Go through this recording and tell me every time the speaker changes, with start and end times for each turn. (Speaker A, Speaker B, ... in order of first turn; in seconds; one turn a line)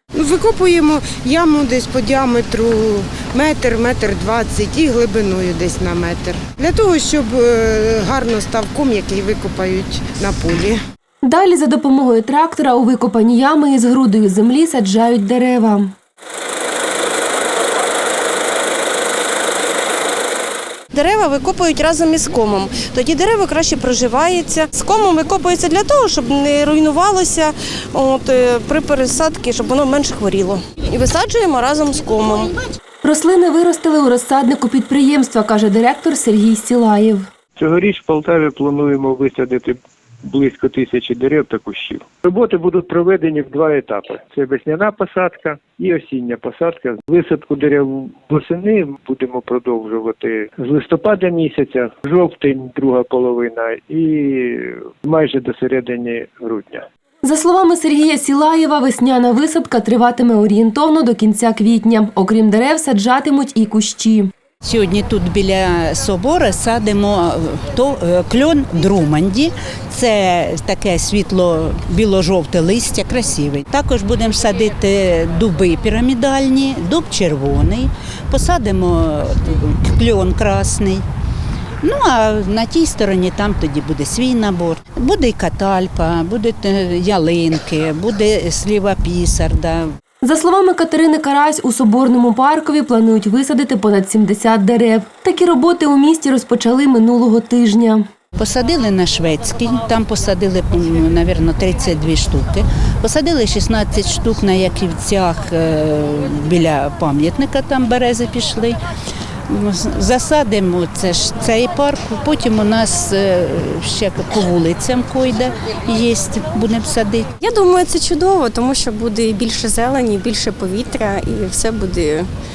Speaker A: 0.2-10.8
Speaker B: 11.2-15.9
Speaker C: 20.9-32.6
Speaker B: 33.0-37.3
Speaker D: 37.5-56.9
Speaker B: 57.2-64.3
Speaker E: 64.6-81.0
Speaker E: 81.8-89.9
Speaker B: 90.2-98.0
Speaker E: 98.3-108.8
Speaker E: 109.5-117.3
Speaker F: 117.4-122.3